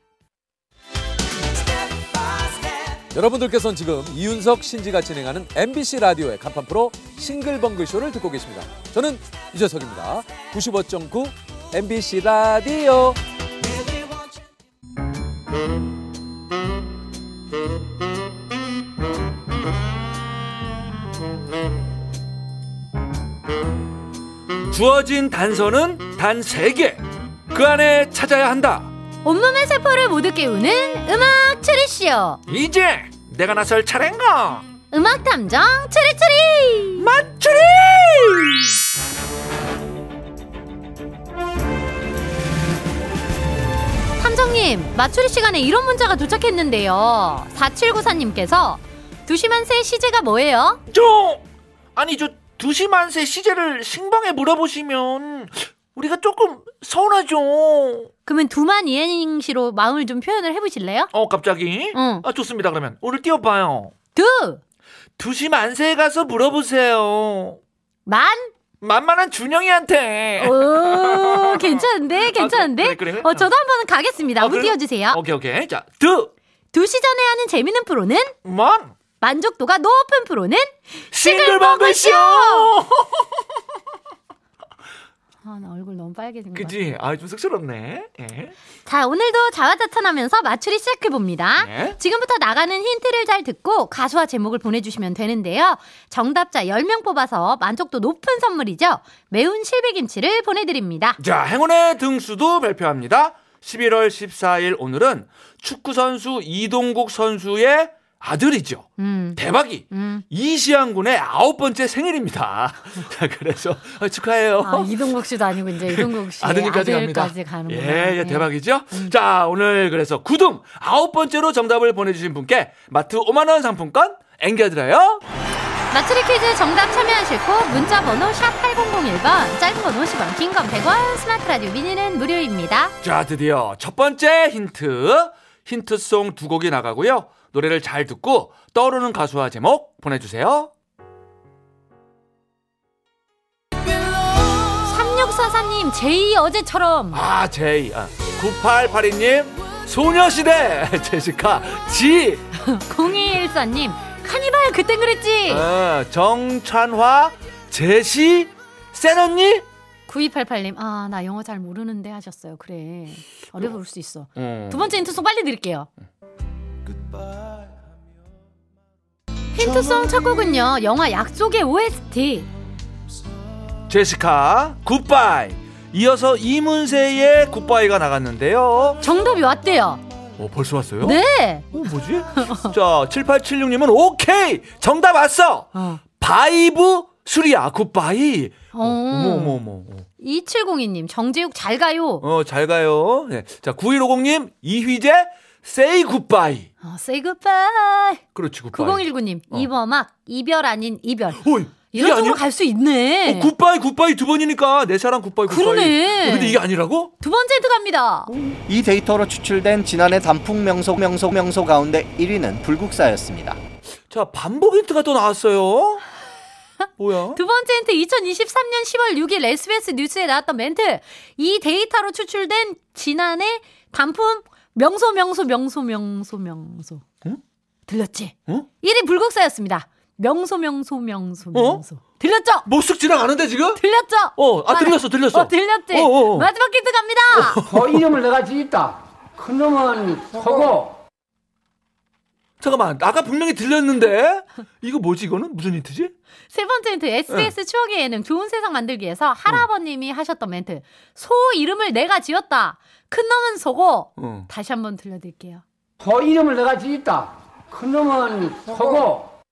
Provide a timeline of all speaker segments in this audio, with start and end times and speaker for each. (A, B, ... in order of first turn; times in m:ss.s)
0:03.1-0:13.2 A
0:24.7-0:28.9 B
0:29.2-0:32.4 C
0:32.5-0:34.6 B
0:34.9-0:37.1 C
0:37.0-0:38.7 B
0:44.2-0:50.8 C
0:50.9-0:51.4 B
0:52.0-0:58.1 B
0:58.3-1:01.1 C
1:01.1-1:03.9 B
1:01.9-1:02.3 C
1:04.2-1:04.6 C
1:05.2-1:07.6 B
1:08.1-1:08.5 C
1:08.8-1:13.5 B
1:10.4-1:15.2 C
1:14.4-1:16.3 B
1:16.7-1:18.4 C
1:18.4-1:18.9 B
1:19.2-1:22.7 C
1:21.1-1:23.4 B
1:25.4-1:26.8 C
1:26.6-1:28.5 B
1:28.9-1:41.2 C
1:31.6-1:32.0 B
1:41.2-1:48.8 B
1:49.0-1:50.2 C
1:49.4-1:55.1 B
1:54.6-1:59.1 C
1:55.8-2:05.2 B
2:05.9-2:13.0 C
2:13.0-2:20.7 B
2:24.7-2:27.2 C
2:27.1-2:32.4 B
2:32.5-2:35.7 C
2:35.5-2:39.6 B
2:40.1-2:45.9 C
2:44.4-2:44.9 B
2:49.6-2:52.5 C
2:49.6-2:50.1 B
2:53.9-2:59.0 B
2:59.0-3:00.0 C
3:00.4-3:01.2 B
3:01.0-3:01.7 C
3:01.7-3:10.0 B
3:02.4-3:02.7 C
3:05.7-3:06.0 C
3:08.7-3:09.6 C
3:10.2-3:12.2 C
3:12.2-3:16.7 B
3:16.8-3:23.5 C
3:18.4-3:19.7 B
3:21.4-3:22.4 B
3:23.3-3:27.1 B
3:25.5-3:26.6 C
3:27.2-3:28.3 C
3:28.3-3:28.6 B
3:28.6-3:33.6 D
3:34.1-3:36.0 B
3:37.0-3:37.4 B
3:37.3-3:47.0 C
3:47.9-3:52.7 C
3:51.5-3:51.8 B
3:52.7-3:53.8 B
3:53.8-3:57.6 C
3:54.4-3:56.5 B
3:57.3-3:58.1 B
3:57.7-4:01.0 E
4:02.6-4:06.1 B
4:06.5-4:15.6 C
4:14.2-4:14.5 B
4:16.0-4:19.3 E